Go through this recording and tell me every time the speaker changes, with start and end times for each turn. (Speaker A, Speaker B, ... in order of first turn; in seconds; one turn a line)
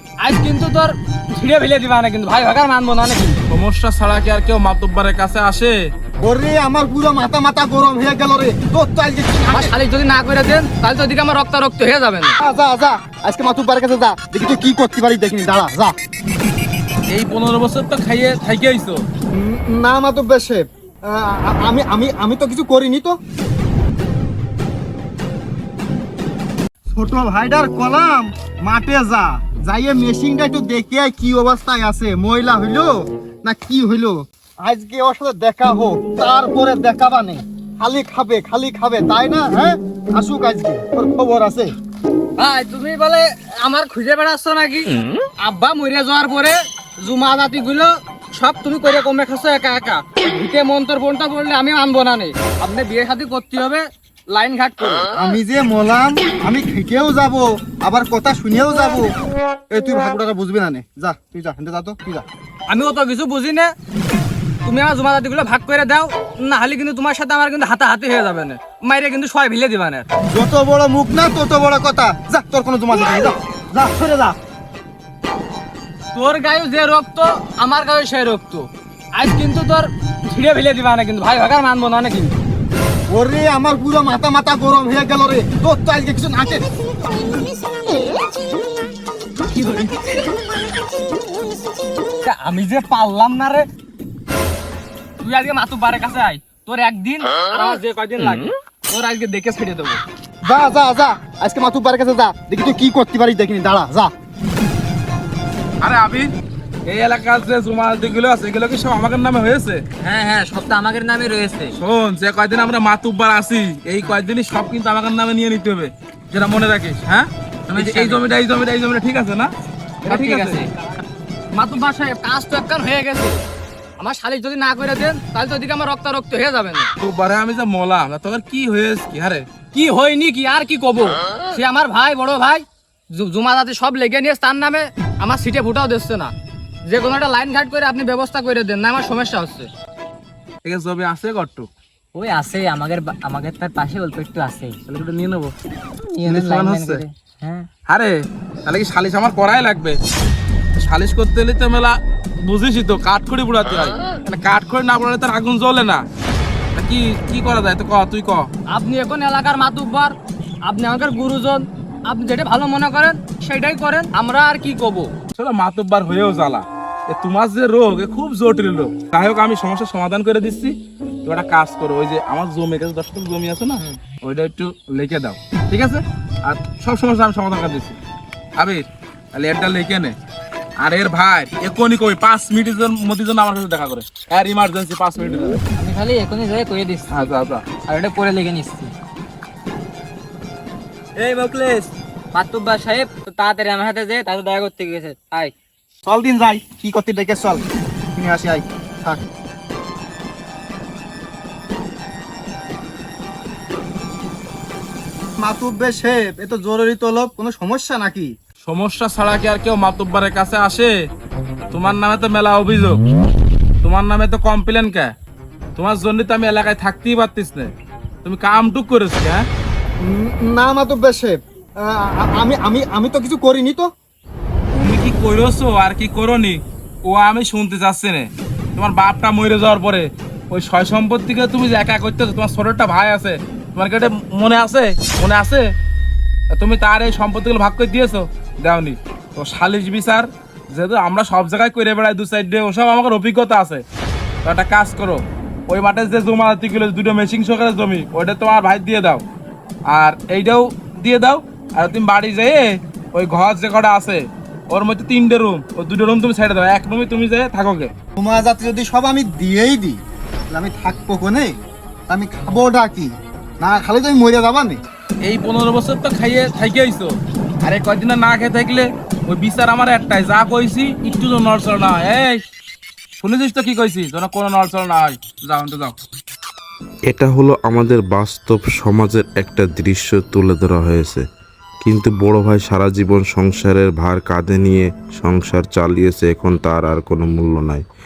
Speaker A: 0.2-3.4
Speaker B: 3.5-5.8
Speaker C: 6.2-9.7
Speaker A: 9.5-12.3
Speaker C: 12.4-15.9
Speaker B: 17.1-19.0
Speaker C: 19.3-23.2
Speaker C: 26.9-41.7
Speaker A: 42.4-55.1
Speaker C: 55.1-59.1
Speaker C: 59.7-62.2
Speaker A: 62.7-63.7
Speaker A: 64.6-70.0
Speaker C: 70.3-74.3
Speaker A: 76.1-82.3
Speaker C: 83.1-86.6
Speaker A: 89.5-90.2
Speaker A: 92.2-93.7
Speaker A: 95.2-100.0
Speaker C: 100.4-104.1
Speaker B: 105.8-106.3
Speaker B: 106.8-109.8
Speaker D: 110.0-111.7
Speaker B: 111.7-119.5
Speaker D: 117.7-118.3
Speaker B: 120.0-120.6
Speaker D: 120.0-120.7
Speaker A: 121.5-123.4
Speaker A: 124.0-126.9
Speaker B: 127.0-129.4
Speaker A: 129.7-132.6
Speaker A: 133.1-136.3
Speaker A: 136.9-139.7
Speaker B: 140.6-141.7
Speaker D: 142.1-144.8
Speaker B: 144.9-145.5
Speaker D: 146.1-147.7
Speaker B: 146.2-147.0
Speaker B: 147.9-150.0
Speaker B: 150.8-156.0
Speaker B: 156.8-158.5
Speaker A: 158.7-160.1
Speaker A: 160.7-165.1
Speaker B: 165.3-178.0
Speaker B: 178.6-180.1
Speaker B: 180.8-185.6
Speaker D: 185.7-188.9
Speaker B: 187.1-187.6
Speaker B: 191.2-191.8
Speaker D: 192.3-195.5
Speaker C: 196.0-197.6
Speaker C: 198.2-199.2
Speaker C: 205.4-208.3
Speaker B: 208.6-210.9
Speaker B: 211.7-213.0
Speaker B: 213.8-215.1
Speaker B: 215.8-217.7
Speaker B: 218.2-219.4
Speaker C: 220.0-223.9
Speaker B: 224.8-235.7
Speaker B: 236.5-243.8
Speaker B: 244.4-249.2
Speaker B: 249.9-257.9
Speaker C: 258.2-260.0
Speaker C: 260.5-261.5
Speaker C: 262.1-263.1
Speaker C: 263.6-264.8
Speaker B: 265.2-272.4
Speaker B: 273.2-276.0
Speaker E: 277.1-281.2
Speaker E: 281.8-287.8